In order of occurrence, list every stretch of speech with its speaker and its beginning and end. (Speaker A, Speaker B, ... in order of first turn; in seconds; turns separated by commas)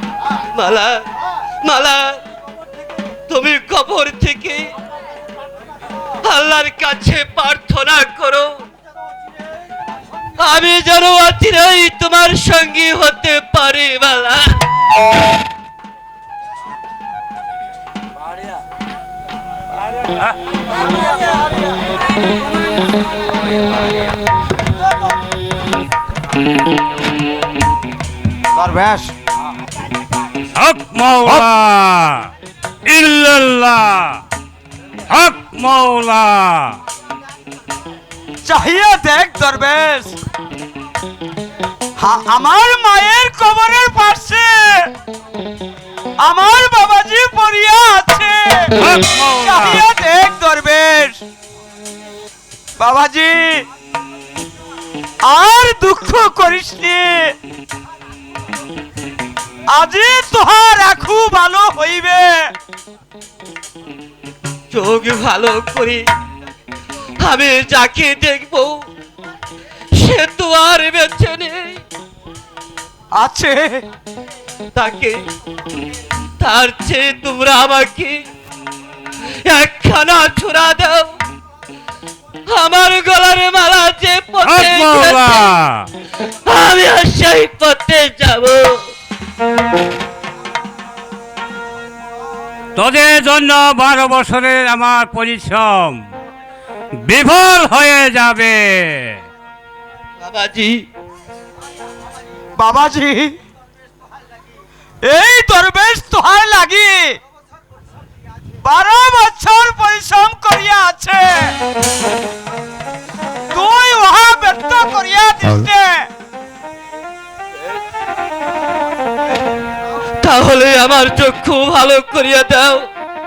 Speaker A: 0.5-1.0, Speaker A: 1.6-2.1, Speaker A: 3.3-4.7, Speaker A: 6.2-8.6, Speaker A: 10.4-14.5, Speaker B: 28.6-29.1, Speaker C: 30.6-32.3, Speaker C: 32.9-34.2, Speaker C: 35.1-36.8, Speaker B: 38.5-40.1, Speaker B: 42.0-44.9, Speaker B: 46.2-48.7, Speaker C: 48.8-49.8, Speaker B: 49.3-51.2, Speaker B: 52.8-53.6, Speaker B: 55.3-57.1, Speaker B: 59.7-62.4, Speaker A: 64.7-66.0, Speaker A: 67.2-68.7, Speaker A: 70.0-71.8, Speaker B: 73.2-73.8, Speaker A: 74.8-75.2, Speaker A: 76.4-78.2, Speaker A: 79.5-81.2, Speaker A: 82.5-85.5, Speaker C: 84.5-85.9, Speaker A: 86.5-88.8, Speaker C: 92.8-96.0, Speaker C: 97.0-99.2, Speaker A: 100.2-100.8, Speaker B: 102.6-103.3, Speaker B: 105.0-107.2, Speaker B: 108.6-111.5, Speaker B: 113.5-116.1, Speaker A: 120.2-122.9